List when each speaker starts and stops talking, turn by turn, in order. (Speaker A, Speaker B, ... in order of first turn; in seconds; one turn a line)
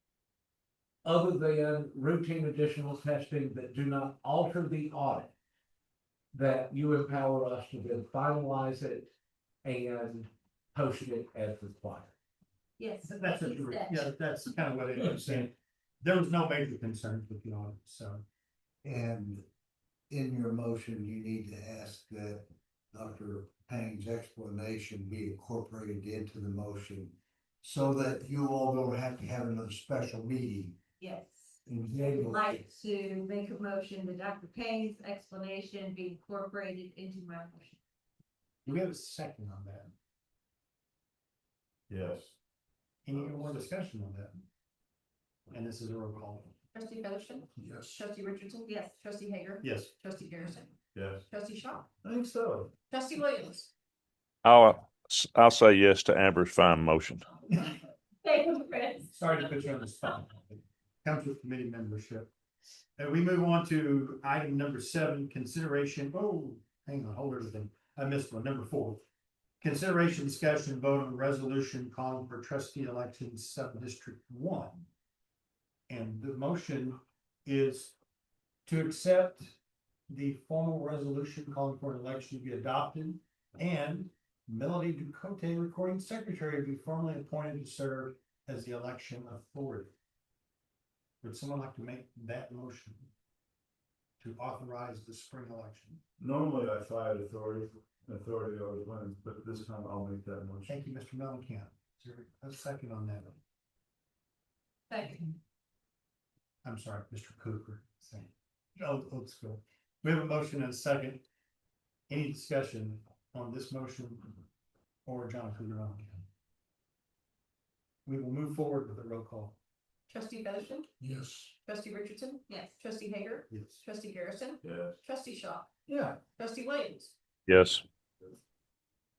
Speaker A: 1.0-5.3
Speaker A: 6.3-9.1
Speaker A: 9.6-12.1
Speaker B: 12.8-14.1
Speaker C: 13.1-18.2
Speaker D: 18.8-19.4
Speaker D: 20.1-30.8
Speaker B: 31.0-37.8
Speaker D: 31.6-32.6
Speaker C: 38.6-39.9
Speaker E: 41.9-42.3
Speaker C: 43.1-44.4
Speaker E: 43.1-43.5
Speaker C: 45.5-46.5
Speaker F: 46.7-50.7
Speaker D: 47.6-47.9
Speaker B: 48.7-49.0
Speaker C: 49.6-49.9
Speaker E: 50.9-51.2
Speaker F: 51.3-51.9
Speaker E: 52.0-52.7
Speaker F: 52.9-53.7
Speaker G: 54.5-57.2
Speaker B: 58.2-59.1
Speaker C: 59.1-62.3
Speaker C: 63.0-69.0
Speaker C: 69.6-74.9
Speaker C: 75.9-78.0
Speaker C: 78.7-79.6
Speaker C: 80.1-89.9
Speaker C: 91.2-93.1
Speaker C: 94.2-96.0
Speaker E: 96.2-100.7
Speaker C: 100.7-103.4
Speaker B: 104.9-105.4
Speaker C: 106.6-111.2
Speaker C: 112.1-114.4
Speaker C: 115.1-116.2
Speaker C: 118.1-119.6
Speaker F: 120.1-120.9
Speaker D: 121.0-121.5
Speaker F: 121.7-125.7
Speaker B: 122.5-122.8
Speaker C: 123.5-123.8
Speaker E: 124.6-125.0
Speaker F: 126.3-127.1
Speaker G: 127.5-127.8